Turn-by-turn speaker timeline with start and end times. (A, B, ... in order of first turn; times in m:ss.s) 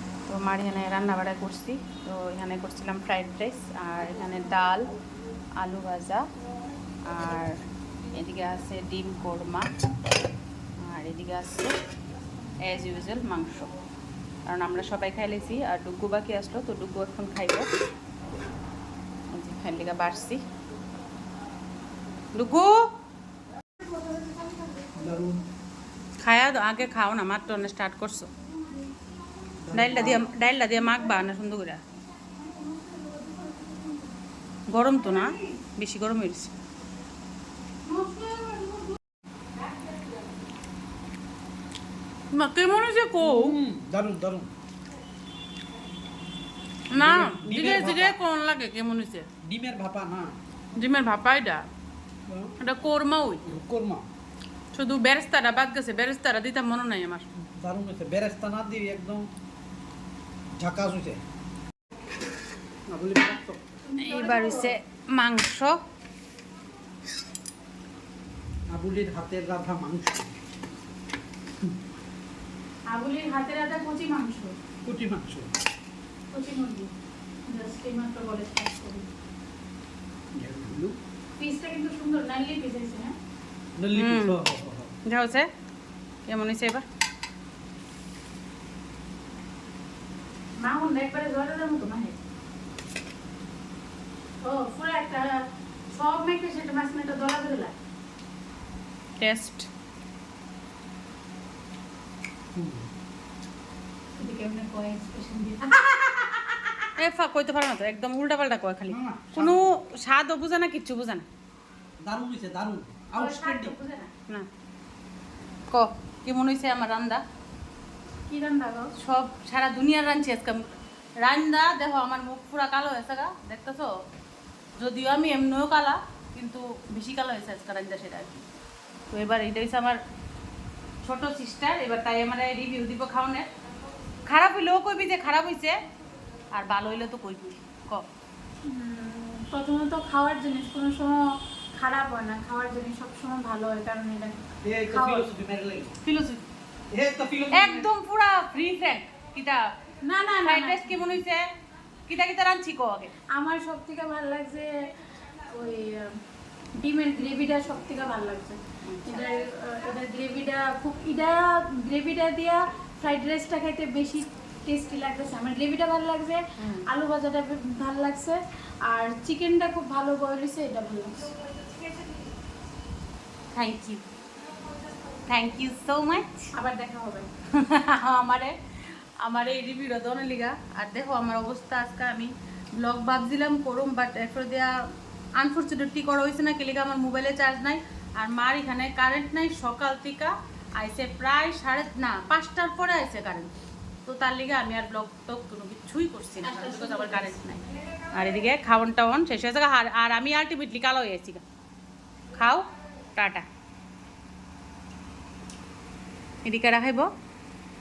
0:00.2-0:04.9 A
0:05.6-0:06.2 A
0:07.0-0:07.6 A
0:08.1-0:09.7 A
0:10.8-0:11.7 A
0:12.6-0:13.7 A
0:14.4-0:17.7 A
0:19.3-0:20.4 A
0:22.3-0:22.8 A
0:23.9-0:24.6 B
0:24.9-0:25.4 C
0:26.2-0:28.3 A
0:29.6-0:30.2 C
0:29.7-0:31.8 A
0:32.3-0:34.1 B
0:34.7-0:36.5 A
0:35.0-0:35.6 B
0:37.8-0:39.0 B
0:42.3-0:43.6 A
0:43.2-0:44.5 C
0:46.9-0:49.3 A
0:46.9-0:48.2 C
0:49.4-0:50.3 C
0:50.7-0:51.7 A
0:52.3-0:52.5 C
0:52.6-0:53.4 A
0:53.4-0:54.0 C
0:54.7-0:57.2 A
0:57.6-0:59.3 C
1:00.6-1:01.2 C
1:02.9-1:03.6 C
1:03.8-1:04.7 B
1:04.0-1:05.8 A
1:08.7-1:10.3 C
1:12.9-1:14.5 B
1:14.8-1:15.5 C
1:16.3-1:16.9 B
1:17.5-1:19.0 B
1:20.3-1:21.0 C
1:21.4-1:23.1 B
1:23.8-1:24.9 C
1:23.9-1:24.4 A
1:25.0-1:25.5 A
1:26.3-1:26.8 A
1:30.6-1:32.2 B
1:34.4-1:37.7 B
1:39.2-1:39.7 A
1:42.5-1:42.9 C
1:44.2-1:46.6 B
1:47.0-1:51.2 A
1:48.9-1:49.7 C
1:52.0-1:53.8 C
1:53.1-1:54.1 B
1:55.7-1:57.2 A
1:58.3-1:58.9 B
1:59.0-2:03.9 A
2:04.8-2:08.4 A
2:09.1-2:10.0 A
2:11.0-2:13.5 A
2:14.2-2:15.8 A
2:16.5-2:18.0 A
2:18.6-2:25.3 B
2:24.6-2:26.0 C
2:26.0-2:26.4 A
2:26.9-2:27.9 C
2:27.5-2:29.7 A
2:30.0-2:31.2 B
2:30.4-2:31.5 A
2:32.1-2:33.1 A
2:33.3-2:36.2 B
2:36.7-2:51.3 B
2:38.8-2:39.4 A
2:46.6-2:46.9 A
2:53.5-2:54.0 A
2:55.2-2:56.5 A
2:56.5-2:57.3 B
2:57.5-3:13.5 A
3:14.0-3:21.4 A
3:16.4-3:17.4 B
3:22.3-3:23.4 A
3:26.4-3:27.1 A